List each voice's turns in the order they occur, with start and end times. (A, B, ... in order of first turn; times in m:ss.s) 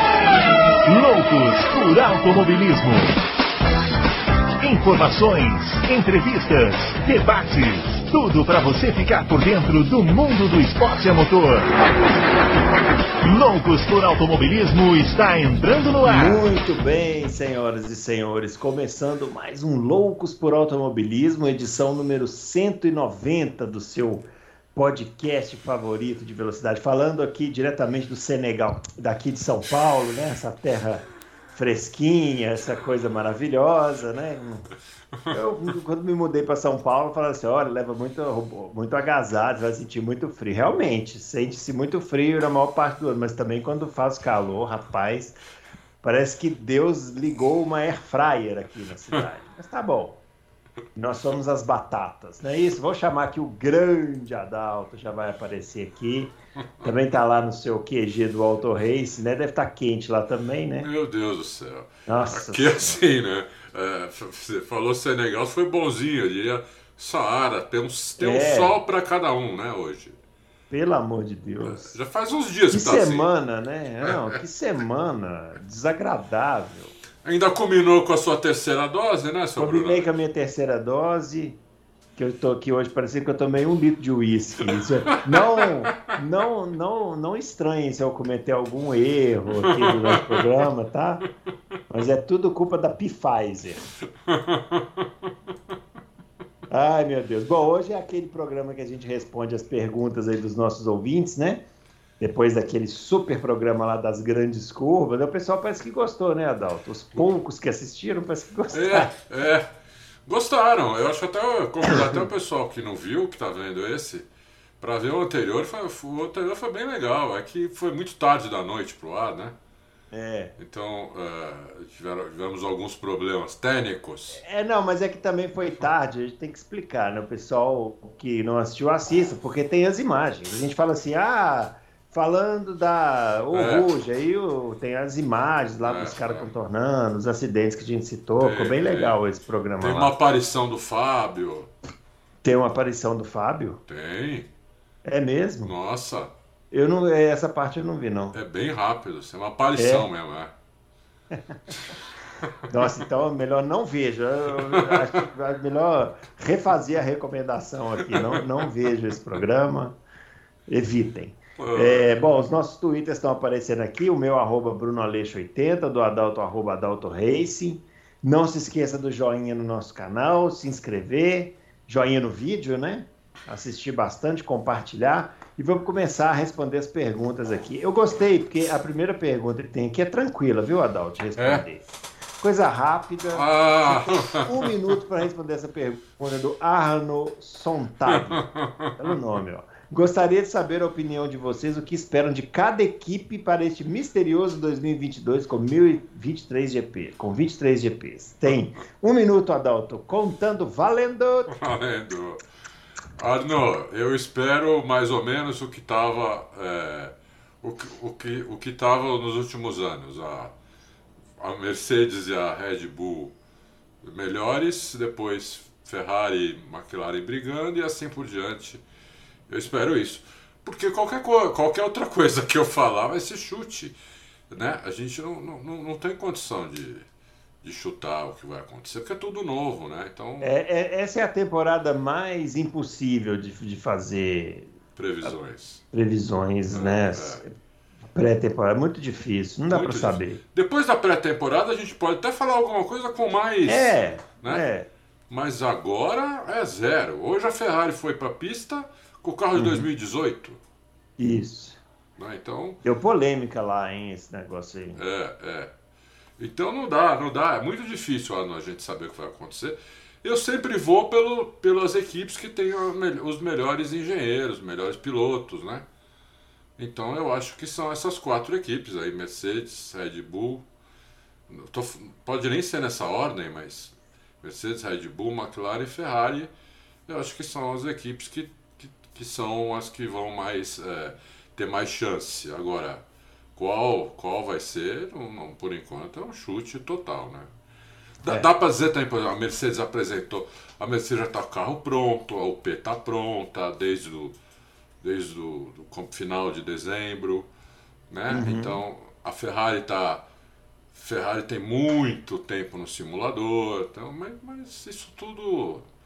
0:00.8-0:03.2 A
0:04.6-0:11.8 A
0:13.2-0:16.5 A
0:16.0-0:34.7 B
0:35.3-0:45.4 B
0:46.0-0:50.2 B
0:51.0-1:00.9 B
1:00.8-1:10.2 C
1:02.1-1:03.0 B
1:08.2-1:08.8 B
1:10.7-1:11.9 B
1:11.6-1:13.3 C
1:12.7-1:16.9 B
1:17.2-1:20.1 C
1:19.6-1:21.6 B
1:22.2-1:31.2 B
1:24.7-1:25.7 C
1:29.6-1:30.5 C
1:31.9-1:33.9 B
1:34.3-1:35.3 C
1:36.7-1:41.6 B
1:42.2-1:49.1 B
1:48.7-1:49.7 C
1:50.3-1:54.3 C
1:54.8-1:59.6 C
2:00.1-2:00.5 B
2:00.6-2:04.4 C
2:04.3-2:20.1 B
2:13.5-2:13.9 C
2:15.8-2:16.5 C
2:18.4-2:19.2 C
2:19.8-2:21.7 C
2:22.4-2:23.8 B
2:23.9-2:24.5 C
2:25.0-2:25.7 B
2:25.6-2:26.3 C
2:26.7-2:28.4 B
2:28.3-2:30.5 C
2:29.8-2:30.1 B
2:32.7-2:40.0 B
2:34.7-2:35.0 C
2:38.1-2:38.4 C
2:40.7-3:01.8 B
2:41.6-2:42.2 C
3:01.4-3:01.6 C
3:02.4-3:21.6 B
3:03.3-3:04.7 C
3:08.1-3:08.9 C
3:21.5-3:22.4 C
3:23.2-3:30.5 C
3:31.4-3:33.3 C
3:34.0-3:38.8 C
3:39.5-3:44.0 C
3:44.5-3:47.1 C
3:47.6-3:50.5 C
3:50.4-3:54.7 B
3:55.0-3:55.8 C
3:55.9-3:57.5 B
3:56.7-3:57.4 C
3:58.1-4:00.4 B
3:59.7-4:04.6 C
4:03.7-4:04.9 B
4:05.3-4:10.6 C
4:09.6-4:09.9 B
4:11.2-4:11.8 B
4:12.2-4:12.8 C
4:12.8-4:15.0 B
4:15.0-4:15.7 C
4:16.4-4:25.8 C
4:26.8-4:30.6 C
4:31.5-4:36.5 C
4:37.1-4:43.0 C
4:43.6-4:47.5 C
4:48.2-4:54.4 C
4:55.0-4:57.5 C
4:58.1-5:00.2 C
4:58.3-4:58.8 B
5:01.0-5:05.9 C